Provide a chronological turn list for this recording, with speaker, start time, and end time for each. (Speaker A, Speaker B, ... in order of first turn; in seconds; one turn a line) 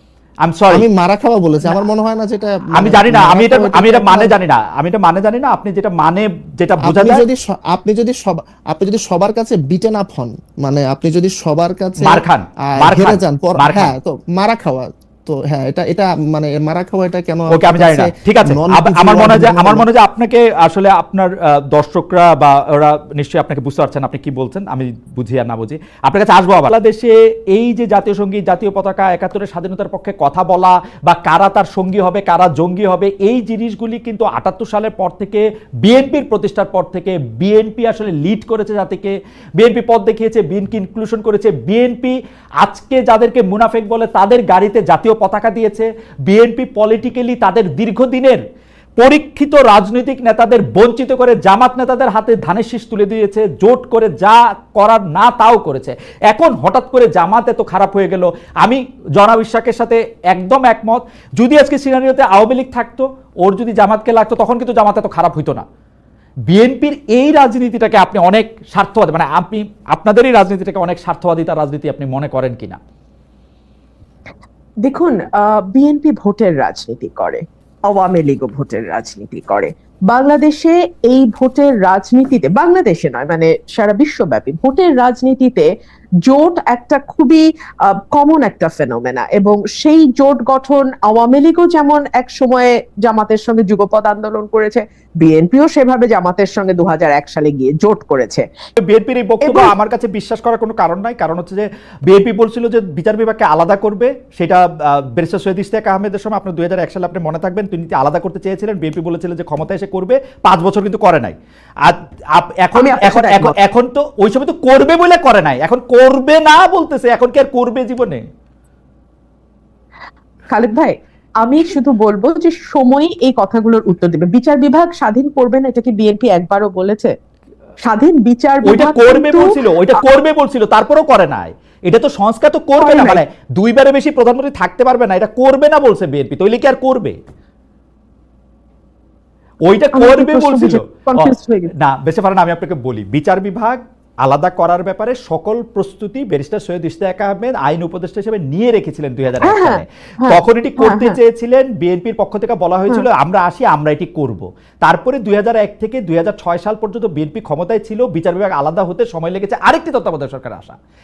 Speaker A: 0.4-0.9
Speaker B: 0.7-4.3
Speaker A: 2.8-7.2
Speaker B: 6.8-19.9
Speaker A: 12.0-13.9
Speaker A: 17.5-48.4
Speaker A: 49.0-65.7
Speaker A: 66.5-72.8
Speaker C: 74.8-85.7
Speaker C: 86.2-98.5
Speaker A: 98.8-118.2
Speaker C: 99.4-99.7
Speaker C: 112.8-113.6
Speaker C: 120.5-127.1
Speaker C: 127.8-130.0
Speaker A: 128.6-137.2
Speaker C: 132.8-133.2
Speaker A: 139.7-160.8
Speaker C: 139.9-141.7
Speaker C: 149.4-151.2